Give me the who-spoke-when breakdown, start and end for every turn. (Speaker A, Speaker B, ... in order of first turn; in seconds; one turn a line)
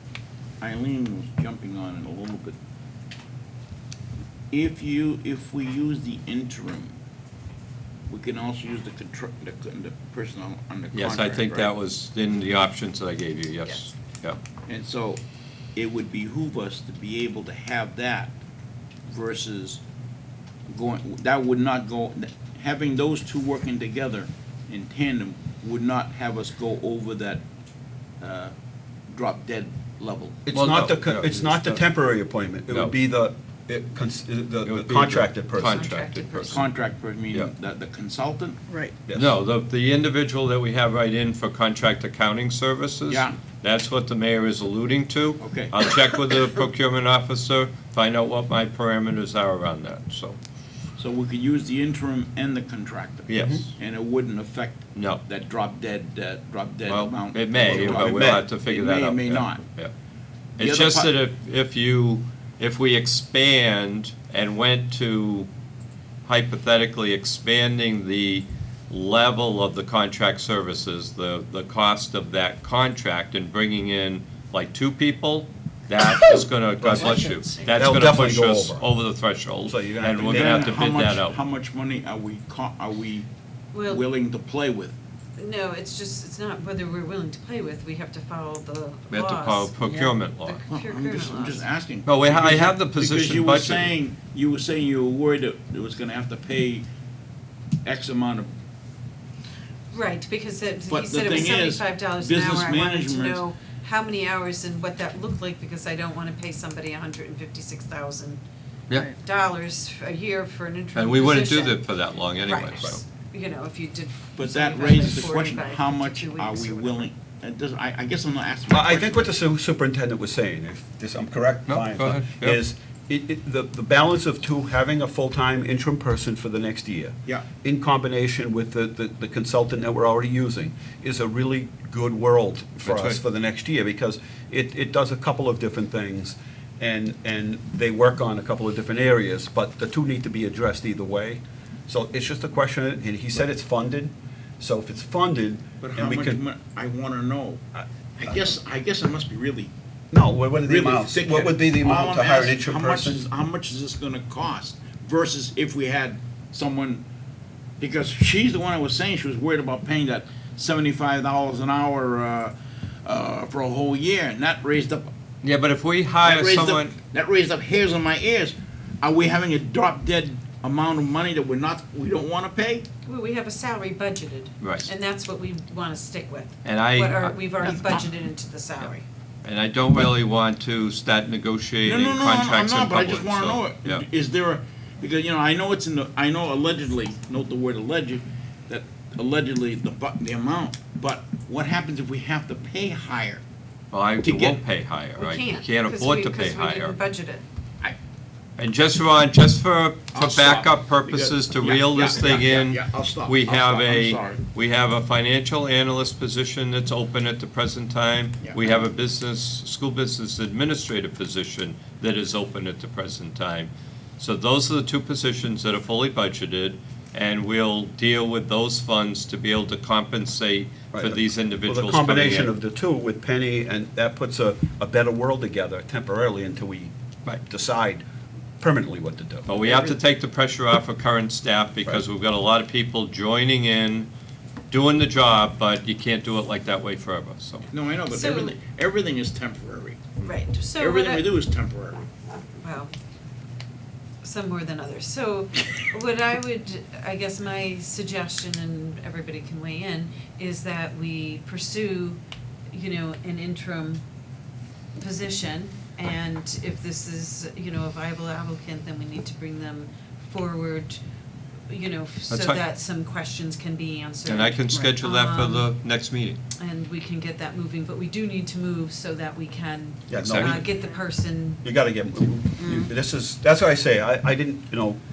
Speaker A: 0.6-2.6
Speaker A: 4.5-7.0
Speaker A: 8.1-11.7
Speaker B: 10.9-14.4
Speaker A: 14.7-15.2
Speaker A: 15.8-18.4
Speaker A: 19.1-19.8
Speaker A: 20.7-27.4
Speaker A: 28.2-28.5
Speaker A: 29.1-30.4
Speaker C: 30.5-35.8
Speaker B: 30.5-31.8
Speaker B: 32.7-33.0
Speaker B: 34.6-36.7
Speaker D: 35.6-36.6
Speaker A: 36.5-38.6
Speaker C: 39.1-39.4
Speaker B: 39.1-50.4
Speaker A: 43.1-43.4
Speaker A: 45.4-45.9
Speaker A: 51.0-59.6
Speaker B: 53.3-53.7
Speaker C: 53.4-53.6
Speaker B: 55.0-55.2
Speaker B: 56.9-59.9
Speaker C: 57.6-58.5
Speaker B: 60.6-65.5
Speaker A: 60.6-61.1
Speaker B: 66.2-81.4
Speaker C: 76.8-78.9
Speaker D: 77.2-77.7
Speaker C: 79.6-80.8
Speaker A: 80.2-83.3
Speaker D: 83.7-84.0
Speaker A: 83.8-85.0
Speaker D: 85.4-91.7
Speaker B: 89.1-90.6
Speaker A: 90.7-96.8
Speaker B: 92.1-94.0
Speaker A: 97.8-98.5
Speaker D: 99.9-108.4
Speaker A: 100.9-103.4
Speaker D: 109.0-111.8
Speaker B: 111.0-113.0
Speaker D: 112.4-117.1
Speaker A: 114.4-119.3
Speaker C: 118.7-146.4
Speaker B: 121.7-122.6
Speaker B: 132.8-133.2
Speaker A: 145.8-147.6
Speaker C: 147.7-148.5
Speaker A: 148.2-149.7
Speaker C: 150.1-153.3
Speaker A: 150.7-157.0
Speaker A: 157.8-165.1
Speaker B: 165.4-166.9
Speaker A: 166.2-172.9
Speaker D: 173.1-179.0
Speaker B: 174.6-174.9
Speaker B: 176.6-178.1
Speaker B: 179.4-184.0
Speaker A: 181.8-193.4
Speaker B: 193.9-196.9
Speaker A: 194.2-194.6
Speaker D: 195.2-197.4
Speaker B: 198.6-222.5
Speaker A: 200.1-204.4
Speaker A: 208.4-208.7
Speaker C: 220.9-228.0
Speaker C: 228.6-229.5
Speaker B: 229.5-234.1
Speaker A: 229.5-230.0
Speaker B: 234.7-237.7
Speaker A: 237.7-240.0
Speaker D: 238.1-238.6
Speaker D: 240.2-241.3
Speaker A: 240.8-242.0
Speaker D: 242.6-242.9
Speaker D: 244.2-252.2
Speaker D: 252.7-254.0
Speaker D: 255.0-261.0
Speaker D: 261.7-265.7
Speaker B: 262.3-262.6
Speaker B: 264.2-266.4
Speaker D: 266.6-271.6
Speaker C: 270.1-270.7
Speaker B: 270.1-270.6
Speaker C: 271.6-275.0